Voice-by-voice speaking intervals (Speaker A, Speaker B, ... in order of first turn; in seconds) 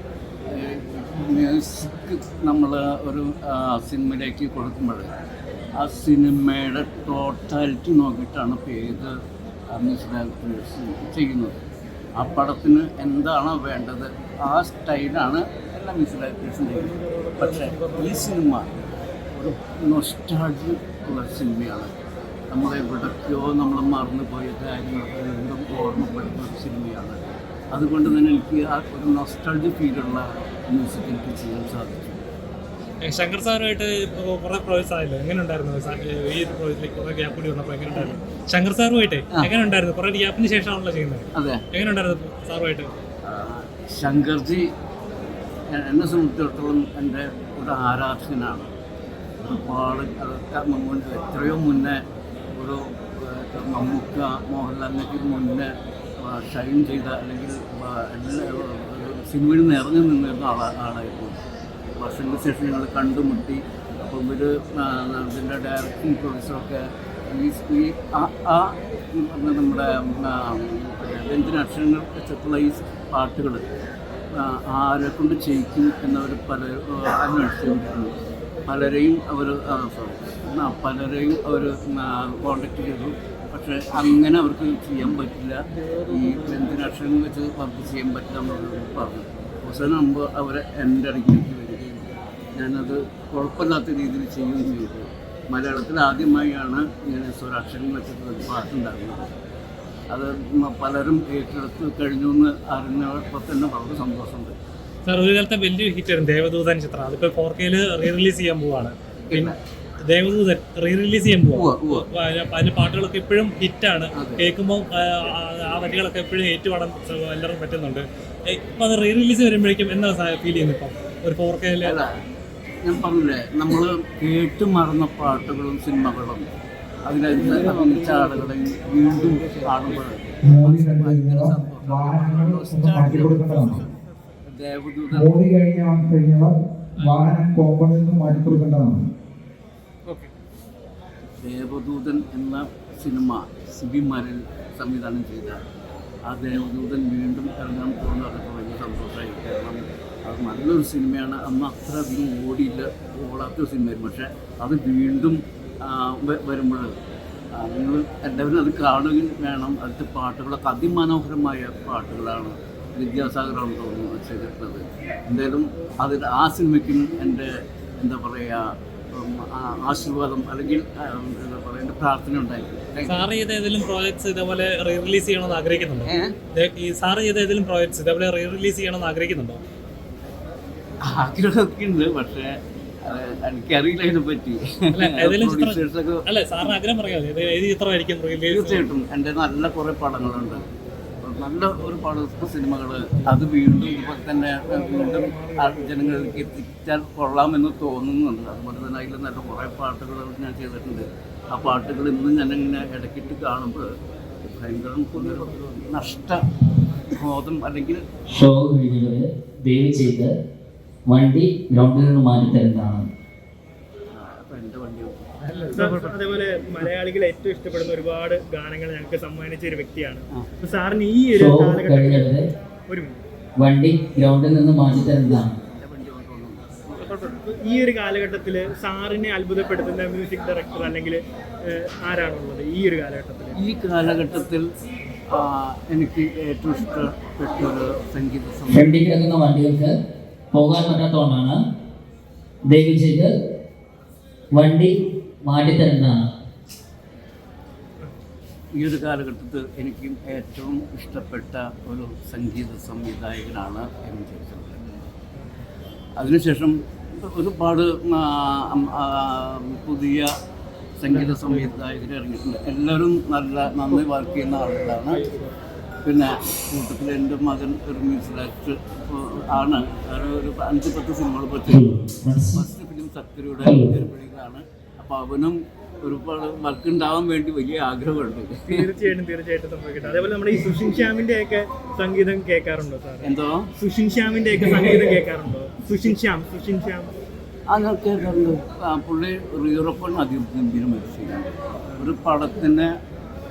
Speaker A: 0.5-5.1, 5.8-9.1, 9.7-11.6, 12.2-18.7, 19.3-21.9, 22.5-27.2, 27.7-32.3, 41.4-41.6, 43.2-44.6, 45.7-48.7, 49.4-52.0, 52.5-61.4, 62.0-73.6, 74.3-78.1, 78.7-99.3, 100.1-104.5, 109.3-109.6, 111.5-112.0, 114.2-114.4, 122.8-126.4, 127.0-135.3, 141.4-145.6, 146.3-156.9, 157.6-168.6, 169.1-173.2, 176.1-176.3, 181.1-182.5, 183.0-186.7, 188.5-190.6, 191.2-203.9, 204.4-206.4, 207.2-208.0, 214.1-215.9, 225.7-227.0, 233.5-234.6, 235.3-238.9, 248.7-254.8, 256.2-260.3, 261.0-265.2, 266.0-271.9, 272.5-278.9, 283.2-283.6, 287.7-292.9
Speaker B: 17.4-17.9, 33.0-42.9, 105.0-109.5, 110.1-122.0, 137.0-137.3, 173.1-179.6, 184.9-188.8, 215.4-216.1
Speaker C: 130.4-133.8, 135.1-139.0
Speaker D: 208.3-210.3, 211.1-213.0, 221.3-222.4, 223.6-225.5, 238.7-239.9, 240.5-241.6, 242.7-243.3, 244.6-244.9, 245.4-246.2, 271.7-272.6, 273.6-273.9
Speaker E: 215.7-222.2, 222.9-223.2, 227.0-233.6, 278.7-287.1